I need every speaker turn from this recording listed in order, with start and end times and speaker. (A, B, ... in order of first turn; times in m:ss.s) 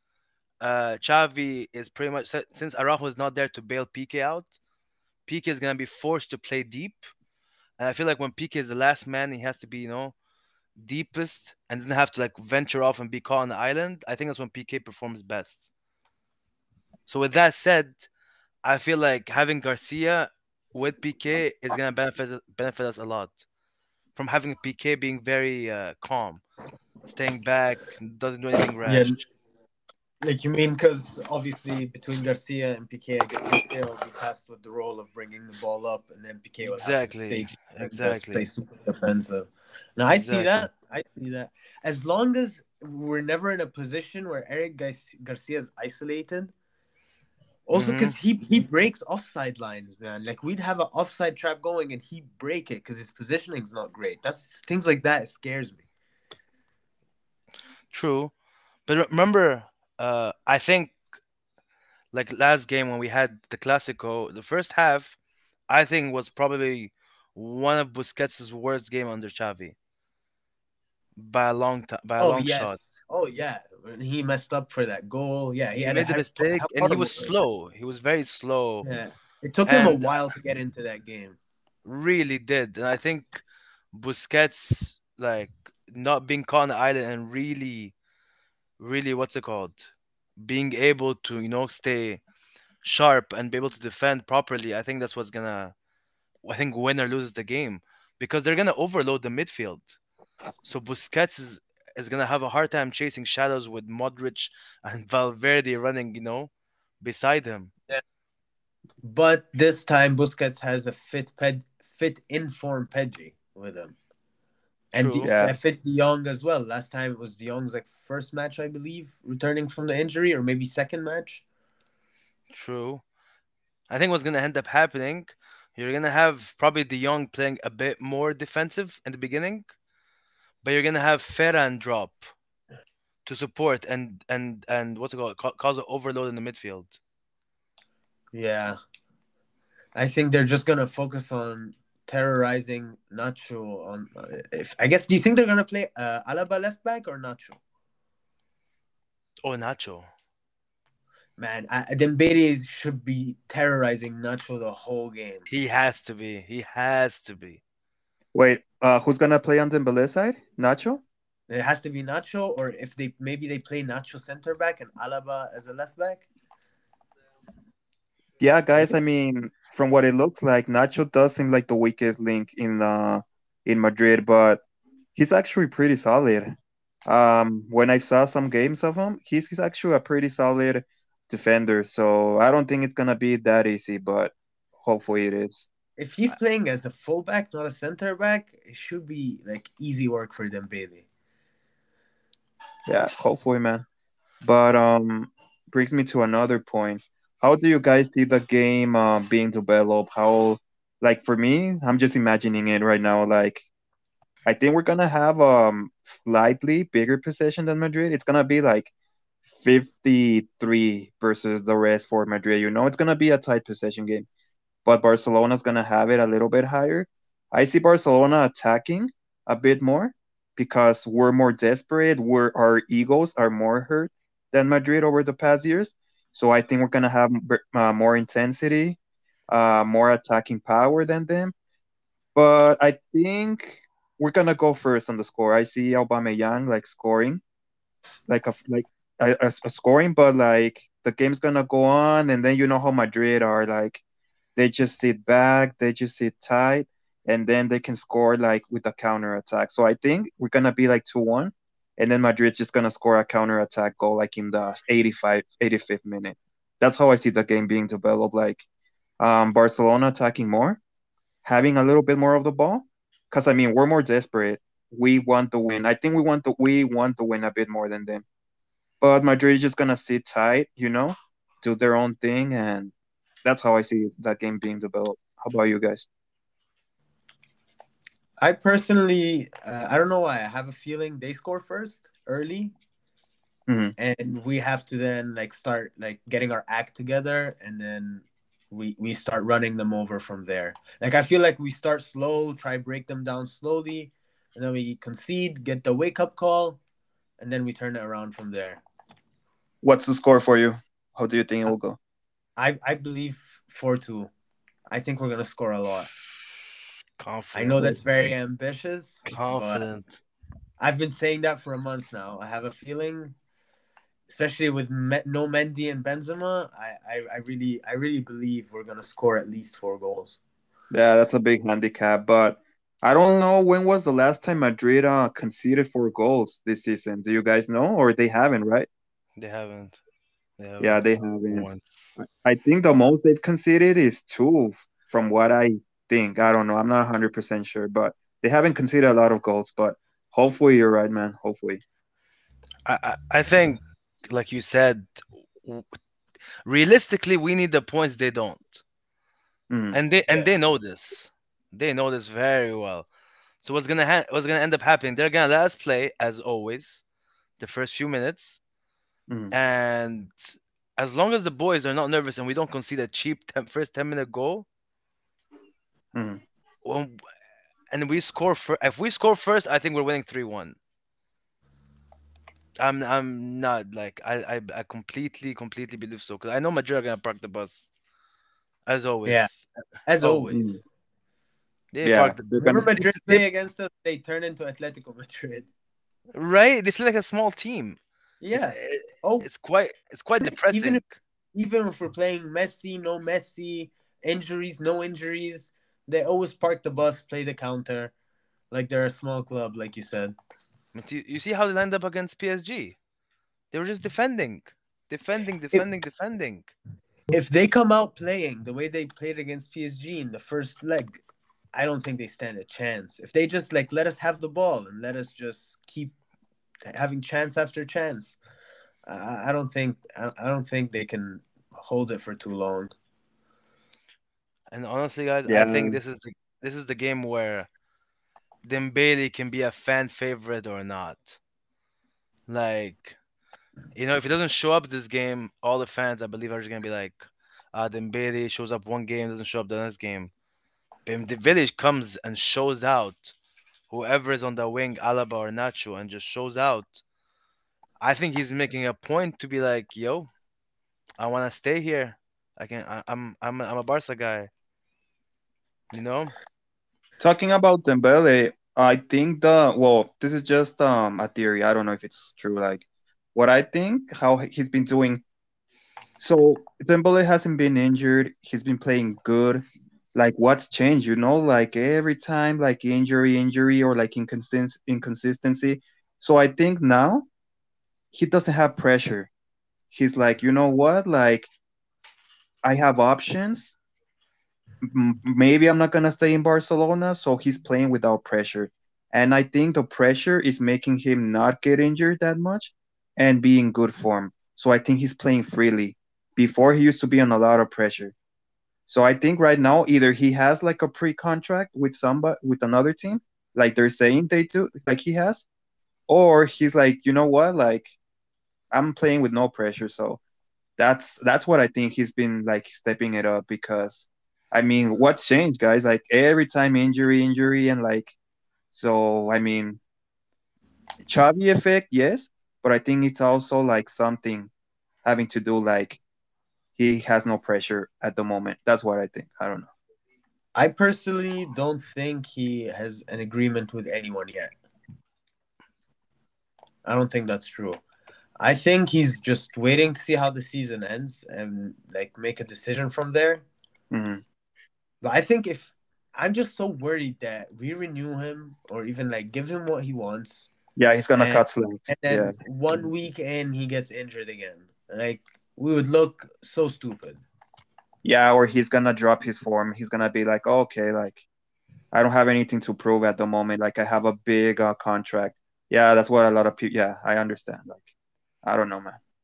0:00.6-0:04.6 A
0:05.2-0:07.1 A
0:07.8-0:10.1 A
0:10.8-0:15.7 A
0:17.1-0:18.0 A
0:18.6-0:23.4 A
0:24.2-0:26.4 A
0:27.1-0:29.2 A
0:28.8-0:29.2 B
0:30.2-0:46.5 B
0:36.7-0:38.5 A
0:40.1-0:40.7 A
0:47.7-0:55.8 B
0:47.7-0:48.2 A
0:57.9-0:58.3 A
0:58.9-1:01.0 A
1:02.1-1:05.2 A
1:05.7-1:09.8 A
1:11.2-1:12.8 A
1:12.2-1:17.3 B
1:15.8-1:18.9 A
1:18.8-1:21.4 B
1:19.7-1:20.1 A
1:21.9-1:27.9 A
1:28.8-1:32.2 A
1:32.8-1:35.7 A
1:36.4-1:40.0 A
1:40.6-1:47.7 A
1:49.0-1:54.0 B
1:54.9-2:01.4 B
1:54.9-1:55.3 A
1:55.2-1:55.6 C
2:02.5-2:03.0 A
2:03.9-2:09.7 A
2:10.6-2:12.3 A
2:13.2-2:17.0 A
2:18.3-2:18.8 B
2:20.0-2:27.6 B
2:29.4-2:30.1 A
2:31.4-2:35.5 B
2:35.5-2:37.6 A
2:38.4-2:41.0 C
2:41.5-2:46.2 B
2:48.4-2:54.6 C
2:55.2-2:56.6 C
2:57.1-3:05.7 C
3:06.0-3:11.0 B
3:12.9-3:13.8 C
3:14.4-3:23.7 C
3:24.5-3:28.9 C
3:29.6-3:34.3 C
3:34.8-3:49.0 C
3:49.5-3:51.5 C
3:52.4-3:57.4 C
3:58.3-4:04.0 C
4:04.6-4:18.6 C
4:19.2-4:20.8 C
4:21.4-4:28.2 C
4:29.0-4:32.9 C
4:33.4-4:36.1 C
4:38.4-4:42.7 B
4:43.7-4:44.0 C
4:44.0-4:56.8 B
4:57.4-4:58.8 B
4:59.8-5:02.0 C
5:02.6-5:04.3 B
5:04.9-5:06.1 B
5:07.2-5:08.0 A
5:07.5-5:09.9 B
5:09.2-5:10.2 A
5:10.8-5:13.4 B
5:14.3-5:20.4 B
5:20.9-5:28.9 C
5:29.4-5:30.0 A
5:30.6-5:32.2 A
5:30.8-5:41.8 C
5:42.9-5:45.9 A
5:46.6-5:48.8 A
5:49.7-5:50.0 C
5:49.9-5:53.1 A
5:53.6-5:57.0 A
5:57.6-5:58.6 A
5:59.3-5:59.5 C
5:59.5-6:04.6 A
6:06.1-6:06.4 C
6:06.8-6:07.2 A
6:07.9-6:10.8 A
6:12.8-6:17.9 A
6:18.9-6:19.7 A
6:20.1-6:20.8 B
6:20.2-6:20.5 A
6:20.5-6:20.8 C
6:21.9-6:23.4 A
6:22.0-6:22.9 C
6:22.6-6:25.7 B
6:26.4-6:28.0 A
6:28.4-6:29.5 B
6:28.5-6:31.2 A
6:30.4-6:31.0 B
6:31.5-6:38.1 B
6:38.7-6:40.4 B
6:40.9-6:43.0 A
6:43.7-6:46.7 A
6:47.3-6:51.2 B
6:51.7-6:56.2 B
6:56.9-6:58.4 B
6:59.1-7:02.9 B
7:04.7-7:07.7 A
7:05.5-7:06.0 C
7:08.6-7:11.4 A
7:12.5-7:13.2 A
7:13.9-7:17.2 A
7:17.7-7:20.3 A
7:21.1-7:23.4 A
7:23.9-7:27.0 A
7:28.0-7:30.3 A
7:31.2-7:34.5 A
7:35.9-7:36.4 A
7:37.2-7:45.2 C
7:46.2-7:57.3 C
7:58.1-7:59.3 C
7:59.9-8:01.5 C
8:02.6-8:03.8 C
8:04.8-8:18.1 C
8:18.9-8:25.4 C
8:26.1-8:27.9 C
8:28.7-8:30.2 C
8:30.8-8:38.1 C
8:38.7-8:39.8 C
8:41.1-8:44.5 C
8:45.0-8:46.0 C
8:46.8-8:49.7 C
8:50.6-8:54.5 B
8:56.8-8:57.8 B
8:58.4-9:03.4 B
9:03.9-9:04.2 C
9:05.0-9:10.5 B
9:10.8-9:12.4 C
9:11.2-9:17.2 B
9:18.0-9:21.2 C
9:21.9-9:27.9 C
9:28.4-9:29.0 C